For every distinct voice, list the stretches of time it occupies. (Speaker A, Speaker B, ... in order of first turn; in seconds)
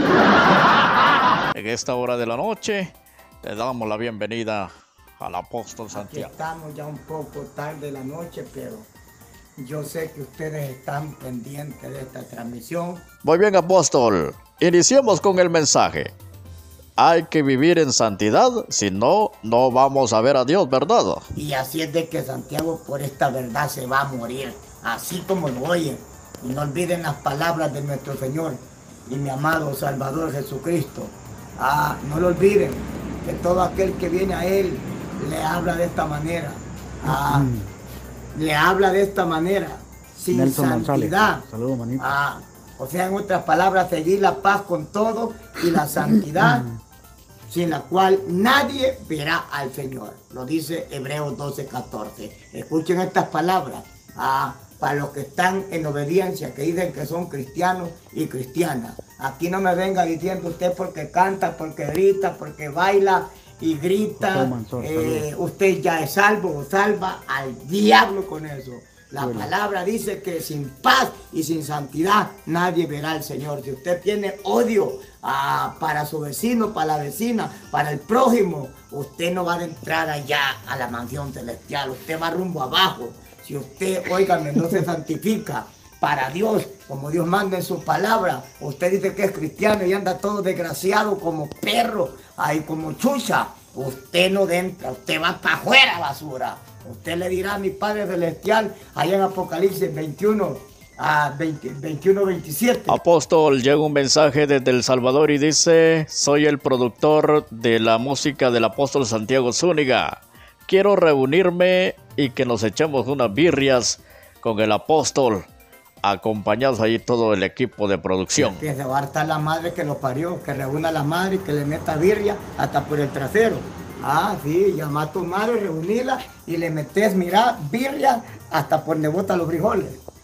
Speaker A: 1.5-2.9, 3.4-6.3, 13.2-16.1, 17.0-21.2, 102.9-115.4, 116.0-118.6
Speaker B: 5.9-8.9, 9.6-13.0, 21.3-37.5, 38.3-41.5, 42.0-46.7, 47.5-103.0, 118.3-130.0
Speaker C: 37.0-37.7, 40.3-42.1, 46.4-46.8, 64.2-65.3, 69.2-69.5